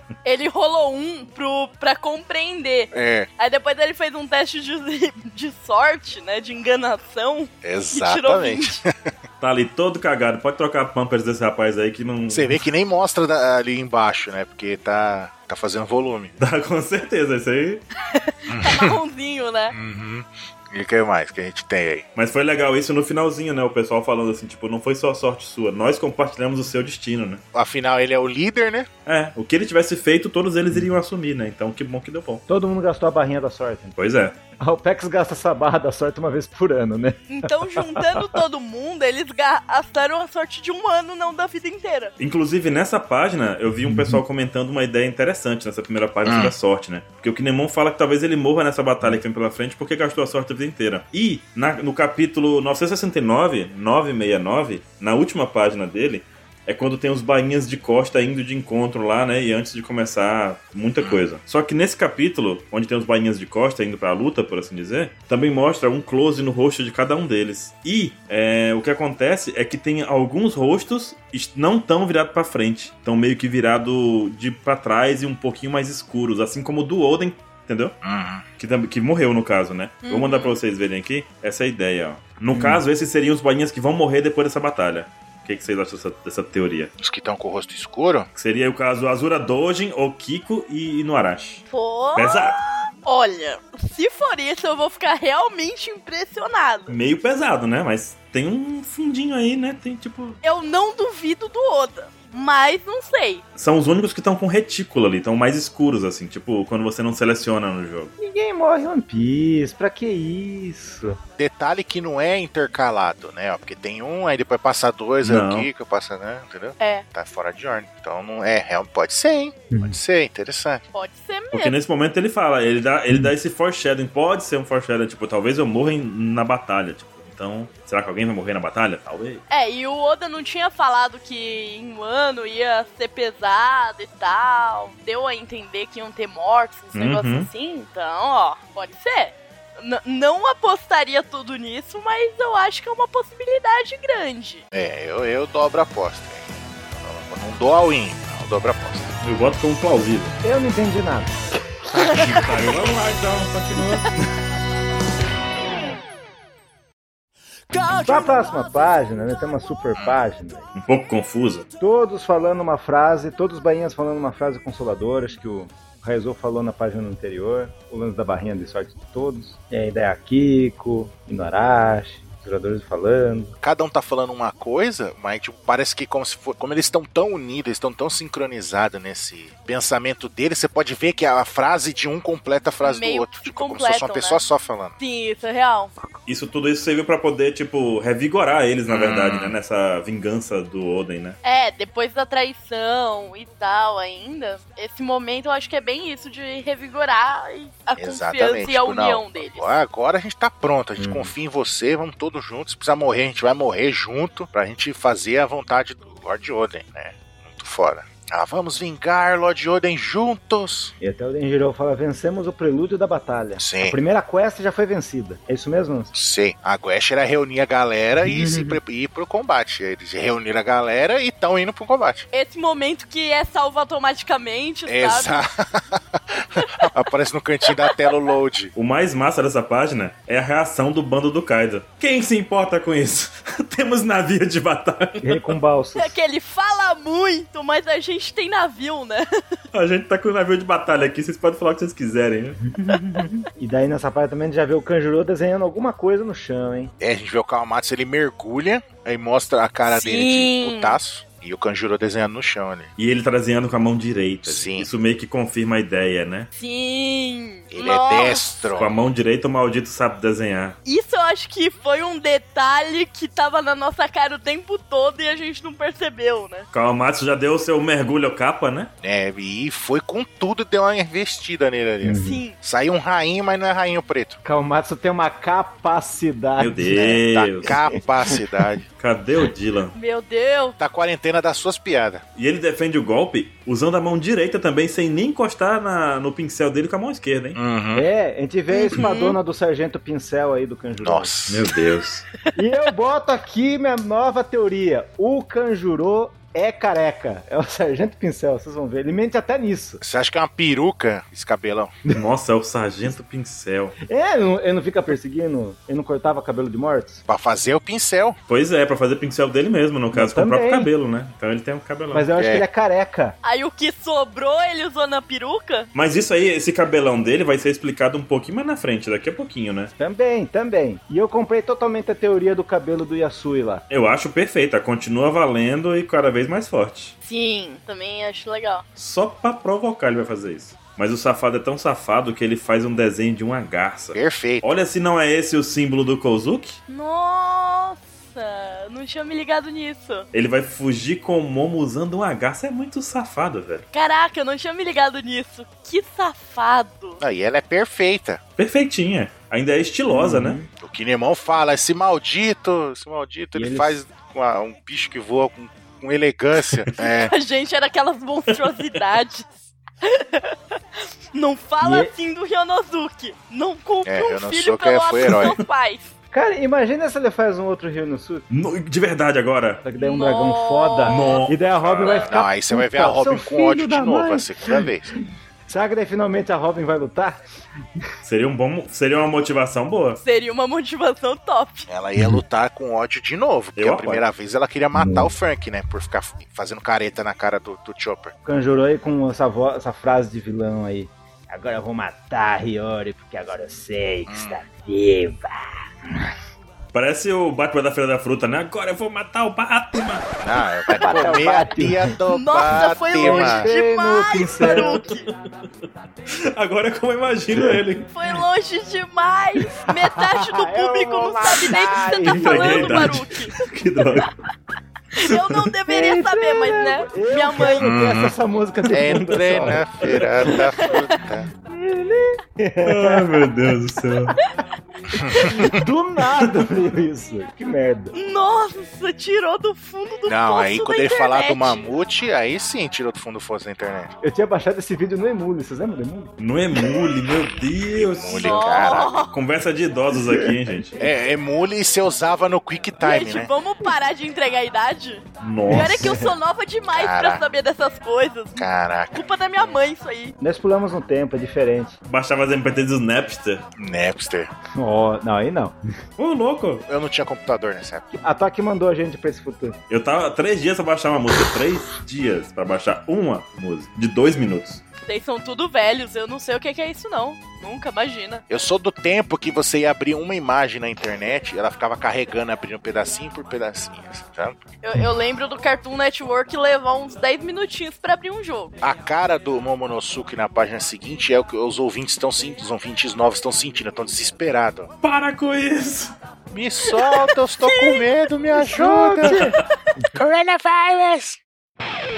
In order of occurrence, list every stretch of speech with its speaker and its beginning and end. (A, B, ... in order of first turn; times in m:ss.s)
0:00.2-0:08.8 A
0:02.9-0:03.3 B
0:07.6-0:09.1 B
0:09.4-0:12.6 C
0:12.3-0:16.4 B
0:16.4-0:17.8 C
0:18.1-0:19.8 A
0:18.5-0:19.0 B
0:19.7-0:22.1 B
0:22.2-0:27.4 C
0:27.5-0:28.9 B
0:29.1-0:32.4 C
0:32.5-0:34.0 D
0:34.0-0:34.4 C
0:34.6-0:38.4 D
0:37.3-0:42.1 A
0:42.2-1:18.0 C
0:43.8-0:44.2 D
0:46.3-0:46.5 B
1:01.0-1:01.2 B
1:18.0-1:18.4 B
1:18.6-1:26.9 C
1:20.0-1:20.6 A
1:22.5-1:22.8 D
1:27.0-1:28.3 B
1:28.4-1:31.6 C
1:31.7-1:37.0 A
1:32.2-1:32.6 C
1:36.9-1:40.4 C
1:40.4-1:43.4 A
1:43.6-1:48.1 C
1:48.2-1:51.2 D
1:51.4-2:00.8 B
1:55.2-1:55.7 C
1:56.8-1:57.0 A
1:59.7-2:00.0 D
2:00.9-2:01.8 A
2:01.5-2:09.4 C
2:09.5-2:24.6 A
2:16.9-2:17.5 C
2:24.7-2:29.2 B
2:29.2-2:30.4 C
2:30.4-2:32.2 D
2:32.0-2:34.2 C
2:32.0-2:32.5 A
2:37.7-2:38.4 A
2:38.0-2:40.7 D
2:40.8-2:41.6 C
2:41.8-2:53.6 D
2:53.6-3:05.0 B
3:02.8-3:04.4 A
3:05.0-3:05.9 A
3:06.3-3:11.4 C
3:08.9-3:09.6 B
3:11.4-3:19.8 A
3:18.0-3:30.9 B
3:21.0-3:21.3 D
3:31.0-3:36.1 D
3:33.6-3:34.0 B
3:36.1-3:42.3 B
3:38.2-3:38.8 D
3:42.3-3:45.4 A
3:44.9-3:48.7 B
3:46.4-3:46.9 A
3:47.7-3:48.1 A
3:48.8-3:55.5 C
3:55.2-3:56.2 D
3:56.0-3:59.6 A
3:59.7-4:02.6 C
4:02.7-4:06.9 D
4:07.0-4:12.9 B
4:09.8-4:11.0 A
4:13.0-4:16.5 C
4:14.4-4:14.9 B
4:16.6-4:18.5 A
4:17.7-4:18.9 B
4:18.8-4:20.8 C
4:20.9-4:26.7 A
4:26.7-4:28.9 C
4:29.0-4:34.4 B
4:32.0-4:32.4 D
4:32.2-4:32.6 A
4:34.4-4:37.8 D
4:36.6-4:37.8 C
4:37.0-4:38.9 B
4:38.3-4:38.7 D
4:39.0-4:40.0 C
4:39.9-4:40.8 A
4:40.8-4:42.2 B
4:42.4-4:47.6 C
4:47.6-4:48.1 B
4:48.0-4:51.3 D
4:48.7-4:49.4 A
4:51.0-4:51.7 B
4:51.5-4:52.2 C
4:52.6-5:00.0 D
5:00.0-5:01.9 B
5:02.1-5:04.0 C
5:04.1-5:07.2 D
5:07.3-5:08.4 B
5:08.5-5:12.3 C
5:10.1-5:10.9 D
5:12.1-5:13.4 D
5:12.4-5:12.6 B
5:13.4-5:15.9 A
5:15.9-5:19.9 C
5:20.0-5:23.8 D
5:23.9-5:27.1 C
5:27.2-5:28.8 A
5:29.0-5:36.8 C
5:34.2-5:34.7 B
5:36.9-5:40.3 A
5:40.3-5:43.8 C
5:43.9-5:47.2 A
5:47.2-5:48.4 B
5:48.6-5:50.6 C
5:50.1-5:50.7 D
5:50.8-5:57.3 B
5:53.6-5:54.0 D
5:57.0-5:59.5 A
5:58.5-5:59.0 C
6:00.0-6:00.8 A
6:01.3-6:06.1 A
6:01.8-6:02.1 D
6:04.0-6:05.6 B
6:06.3-6:08.5 D
6:08.5-6:09.8 C
6:09.8-6:14.9 D
6:10.0-6:11.5 A
6:11.1-6:12.2 C
6:11.8-6:15.1 B
6:15.7-6:17.4 D
6:18.2-6:20.2 C
6:20.2-6:21.9 A
6:21.9-6:28.3 B
6:22.2-6:22.4 D
6:23.8-6:24.3 C
6:24.9-6:25.3 D
6:28.4-6:36.3 D
6:34.3-6:34.6 B
6:36.9-6:40.3 C
6:40.4-6:43.7 B
6:40.9-6:42.2 D
6:42.3-6:45.3 A
6:43.1-6:45.0 D
6:44.6-6:45.3 C
6:46.5-6:48.1 C
6:47.5-6:47.8 D
6:48.1-6:53.5 A
6:49.9-6:53.2 D
6:52.3-6:54.3 C
6:55.2-6:57.9 A
6:55.3-6:55.6 C
6:55.9-7:00.9 D
6:57.7-6:58.3 B
6:58.9-7:01.5 B
7:01.5-7:03.5 D
7:02.8-7:04.4 C
7:05.1-7:05.8 B
7:05.3-7:05.7 A
7:05.4-7:08.1 D
7:08.1-7:11.9 A
7:10.3-7:14.2 B
7:14.2-7:17.2 D
7:16.4-7:21.0 C
7:17.9-7:19.2 B
7:18.4-7:19.4 A
7:20.1-7:20.8 D
7:21.0-7:23.5 B
7:23.0-7:30.3 A
7:25.4-7:26.2 C
7:25.7-7:26.4 D
7:26.9-7:27.4 B
7:28.6-7:29.3 B
7:30.4-7:32.0 D
7:32.1-7:33.6 C
7:33.8-7:34.5 B
7:34.8-7:35.8 D
7:36.2-7:36.8 C
7:36.9-7:38.1 B
7:38.1-7:39.8 D
7:39.9-7:44.8 C
7:45.0-7:48.4 A
7:48.5-7:54.6 B
7:54.8-7:58.8 A
7:58.8-8:04.9 B
8:05.0-8:06.1 C
8:06.5-8:09.5 B
8:06.9-8:08.1 A
8:08.6-8:10.1 D
8:09.3-8:09.5 C
8:10.1-8:11.4 B